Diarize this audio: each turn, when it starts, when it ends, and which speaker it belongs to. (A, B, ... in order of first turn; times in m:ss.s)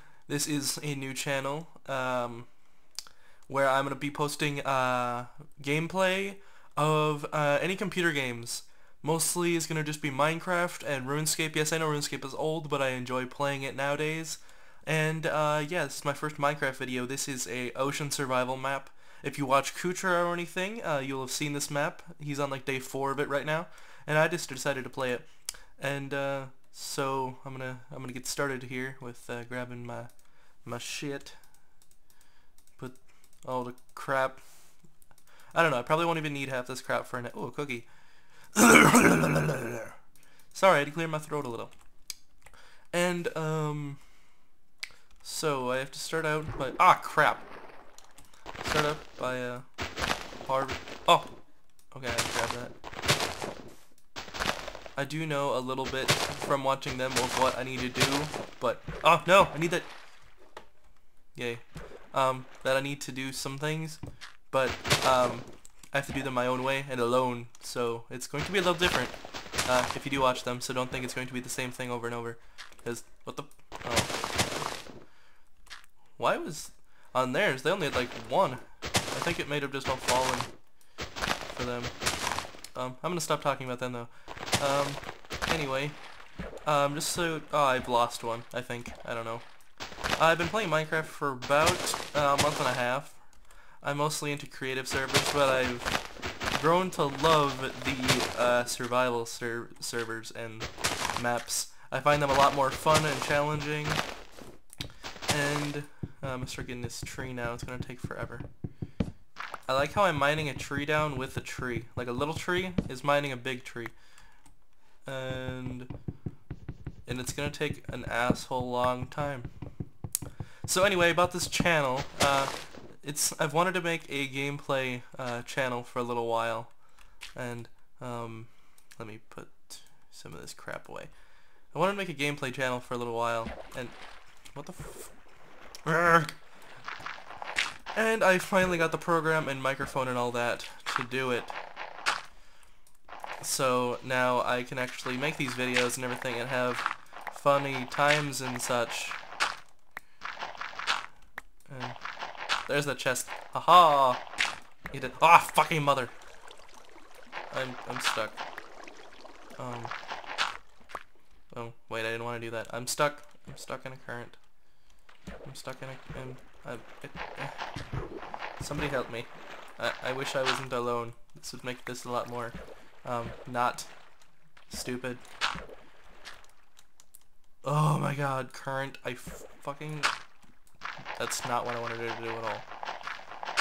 0:00.3-0:02.5 A
0:03.5-0:30.1 A
0:30.6-0:31.4 A
0:32.8-0:34.4 A
0:35.5-0:37.9 A
0:38.5-0:40.0 A
0:40.5-0:41.7 A
0:42.9-0:44.0 A
0:45.2-0:47.5 A
0:48.6-0:49.7 A
0:50.4-0:51.3 A
0:51.9-0:52.7 A
0:55.0-0:59.9 A
1:01.4-1:14.7 A
1:16.2-1:20.5 A
1:21.5-1:22.0 A
1:22.8-1:26.0 A
1:26.6-1:29.4 A
1:30.2-1:33.2 A
1:33.8-1:44.0 A
1:45.3-1:48.5 A
1:49.7-1:53.9 A
1:55.0-1:55.9 A
1:57.1-1:59.5 A
2:00.6-2:06.7 A
2:07.4-2:11.1 A
2:11.7-2:14.0 A
2:14.5-2:15.1 A
2:15.8-2:16.3 A
2:17.9-2:21.6 A
2:23.4-2:29.2 A
2:31.7-2:32.0 A
2:32.7-2:34.2 A
2:34.9-2:36.1 A
2:37.5-2:38.4 A
2:39.6-2:39.9 A
2:41.5-2:44.4 A
2:45.4-2:47.6 A
2:48.6-2:53.9 A
2:54.7-2:55.2 A
2:57.6-3:00.1 A
3:01.2-3:02.7 A